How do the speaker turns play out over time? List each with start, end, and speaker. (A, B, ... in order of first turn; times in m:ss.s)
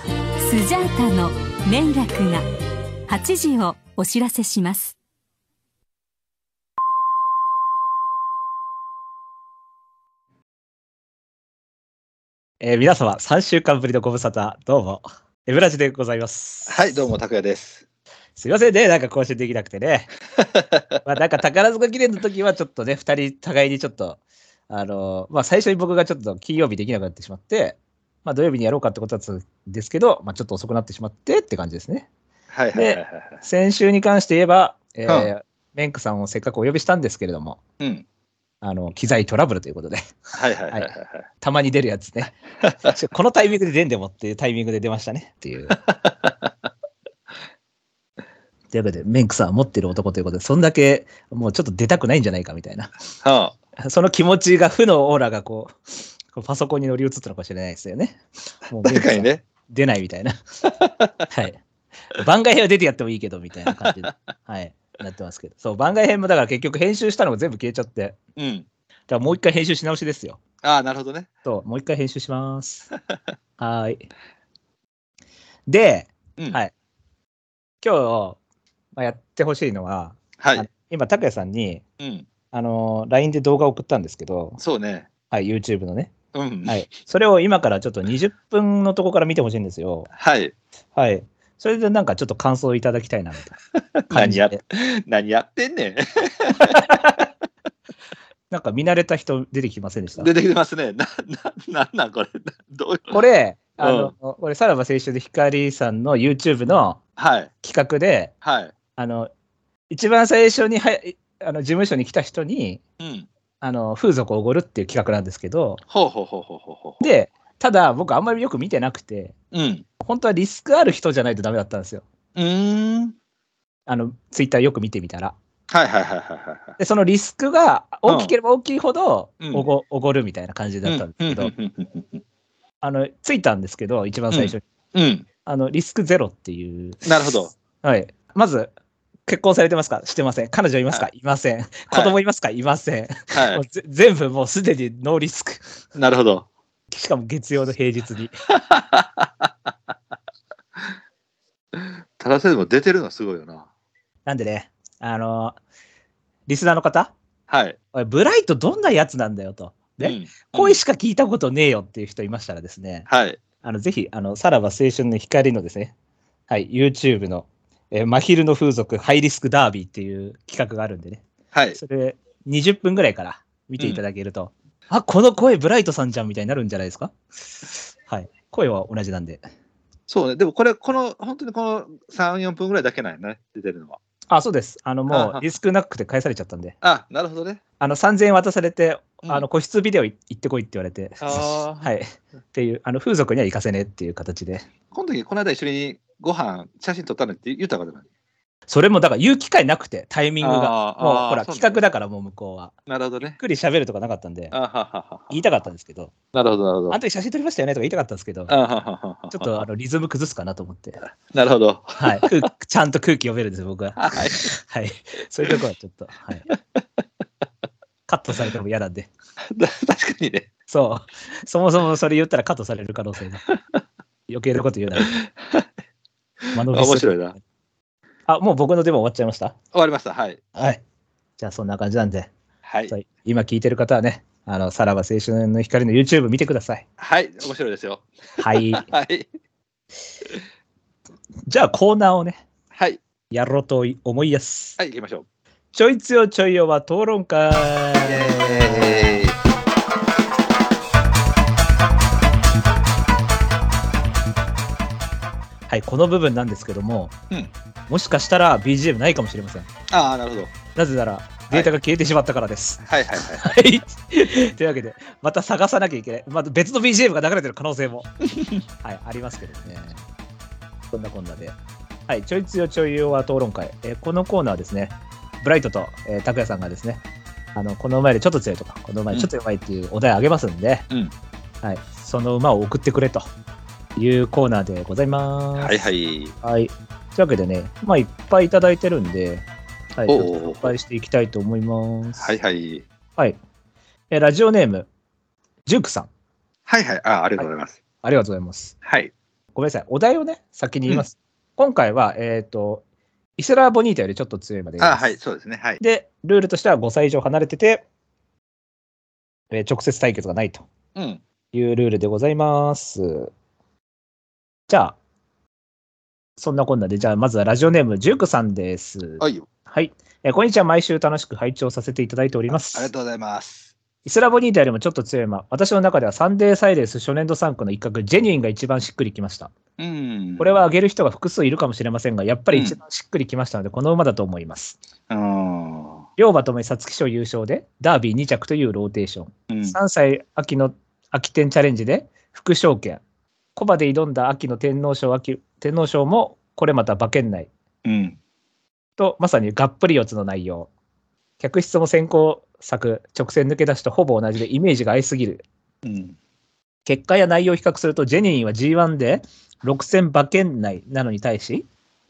0:00.4-0:02.5 A
0:03.1-0:05.0 A
0:12.6-0:16.9 B
0:16.7-0:17.8 C
0:18.4-0:20.1 B
0:20.4-0:21.0 C
0:21.0-0:32.1 B
0:32.5-0:33.4 C
0:32.8-0:37.6 B
0:37.8-0:38.0 C
0:38.6-0:40.2 B
0:40.4-0:41.2 C
0:40.7-0:45.8 B
0:42.6-0:42.9 C
0:46.0-0:46.5 C
0:48.7-0:52.9 B
0:53.2-0:53.6 C
0:53.8-1:00.4 B
0:58.8-0:59.4 C
1:00.8-1:01.1 C
1:01.3-1:01.6 B
1:02.1-1:08.2 B
1:03.7-1:04.1 C
1:08.4-1:08.7 C
1:09.1-1:10.4 B
1:10.6-1:11.3 C
1:11.4-1:12.9 B
1:13.6-1:14.1 B
1:15.7-1:16.7 B
1:17.8-1:18.4 B
1:19.0-1:21.8 B
1:20.4-1:20.7 C
1:22.0-1:22.3 C
1:22.5-1:24.6 B
1:24.6-1:25.1 C
1:25.3-1:30.1 B
1:26.3-1:26.8 C
1:30.1-1:30.5 C
1:31.0-1:33.6 B
1:33.8-1:37.2 C
1:34.1-1:34.6 B
1:36.7-1:37.2 B
1:38.5-1:40.3 B
1:40.2-1:43.2 C
1:43.1-1:47.0 B
1:43.8-1:44.1 C
1:47.2-1:47.5 C
1:47.6-1:48.3 B
1:48.4-1:48.7 C
1:49.0-1:49.3 B
1:49.9-1:52.8 B
1:53.0-1:53.3 C
1:53.6-1:55.8 B
1:55.9-1:57.0 C
1:57.0-1:59.3 B
1:59.5-1:59.8 C
2:00.0-2:02.0 B
2:02.4-2:03.2 C
2:03.9-2:05.4 B
2:05.7-2:06.8 C
2:06.8-2:11.5 B
2:08.1-2:08.3 C
2:09.4-2:09.7 C
2:10.8-2:12.2 C
2:12.8-2:14.6 B
2:14.3-2:15.3 C
2:15.4-2:17.1 B
2:17.0-2:17.5 C
2:17.8-2:18.7 B
2:19.3-2:25.6 B
2:23.3-2:23.6 C
2:26.0-2:26.5 C
2:26.9-2:28.4 B
2:28.6-2:29.5 C
2:31.8-2:33.7 C
2:34.3-2:35.6 B
2:36.5-2:37.1 B
2:37.5-2:37.8 C
2:37.9-2:43.1 B
2:40.0-2:40.8 C
2:43.1-2:43.4 C
2:43.6-2:45.9 B
2:46.5-2:51.2 B
2:51.5-2:51.8 C
2:51.8-2:57.1 B
2:58.1-2:59.4 B
3:00.1-3:04.0 C
3:04.3-3:06.8 B
3:05.1-3:05.4 C
3:06.8-3:07.6 C
3:07.8-3:14.7 B
3:11.2-3:11.9 C
3:14.9-3:18.0 C
3:18.7-3:22.7 B
3:20.4-3:21.8 C
3:22.9-3:23.4 C
3:23.3-3:24.6 B
3:24.5-3:25.4 C
3:25.3-3:26.1 B
3:26.3-3:27.0 C
3:26.9-3:28.5 B
3:28.5-3:29.6 C
3:29.3-3:31.0 B
3:31.3-3:32.3 C
3:32.0-3:36.5 B
3:34.0-3:34.5 C
3:38.1-3:39.1 B
3:39.5-3:40.5 C
3:40.7-3:43.4 B
3:44.3-3:45.1 B
3:45.0-3:45.7 C
3:46.5-3:47.2 B
3:46.6-3:47.4 C
3:48.3-3:49.6 B
3:49.7-3:50.5 C
3:50.6-3:50.8 B
3:51.4-3:52.3 B
3:52.6-3:52.9 C
3:52.9-3:56.8 B
3:57.0-3:59.3 C
3:58.4-3:58.9 B
4:01.5-4:02.4 B
4:02.7-4:03.0 C
4:03.3-4:04.8 B
4:04.8-4:05.3 C
4:05.7-4:09.2 B
4:08.0-4:09.4 C
4:15.7-4:17.2 B
4:17.9-4:19.7 B
4:19.9-4:20.5 C
4:20.8-4:28.1 B
4:22.9-4:23.6 C
4:28.3-4:28.6 C
4:28.8-4:30.0 B
4:30.9-4:31.6 B
4:32.1-4:37.0 B
4:37.6-4:40.9 B
4:41.6-4:43.3 B
4:44.0-4:45.9 B
4:45.6-4:46.4 C
4:46.4-4:52.3 B
4:50.1-4:50.7 C
4:52.2-4:52.9 C
4:54.1-4:54.9 B
4:55.7-4:56.1 B
4:56.7-4:57.8 C
4:58.0-4:58.8 B
4:58.8-4:59.1 C
4:59.6-5:02.8 B
5:03.4-5:05.2 B
5:04.8-5:05.8 C
5:05.8-5:07.8 B
5:09.5-5:10.7 B
5:11.0-5:11.2 C
5:11.5-5:13.3 B
5:14.7-5:15.0 B
5:16.4-5:22.9 B
5:19.2-5:19.5 C
5:22.7-5:23.7 C
5:24.0-5:29.5 B
5:29.8-5:30.6 C
5:30.4-5:34.8 B
5:32.5-5:32.8 C
5:35.1-5:36.0 C
5:36.2-5:43.0 B
5:39.5-5:39.8 C
5:43.6-5:47.5 B
5:47.8-5:48.2 C
5:49.0-5:50.7 B
5:51.4-5:55.4 B
5:55.8-5:56.2 C
5:56.9-6:01.7 B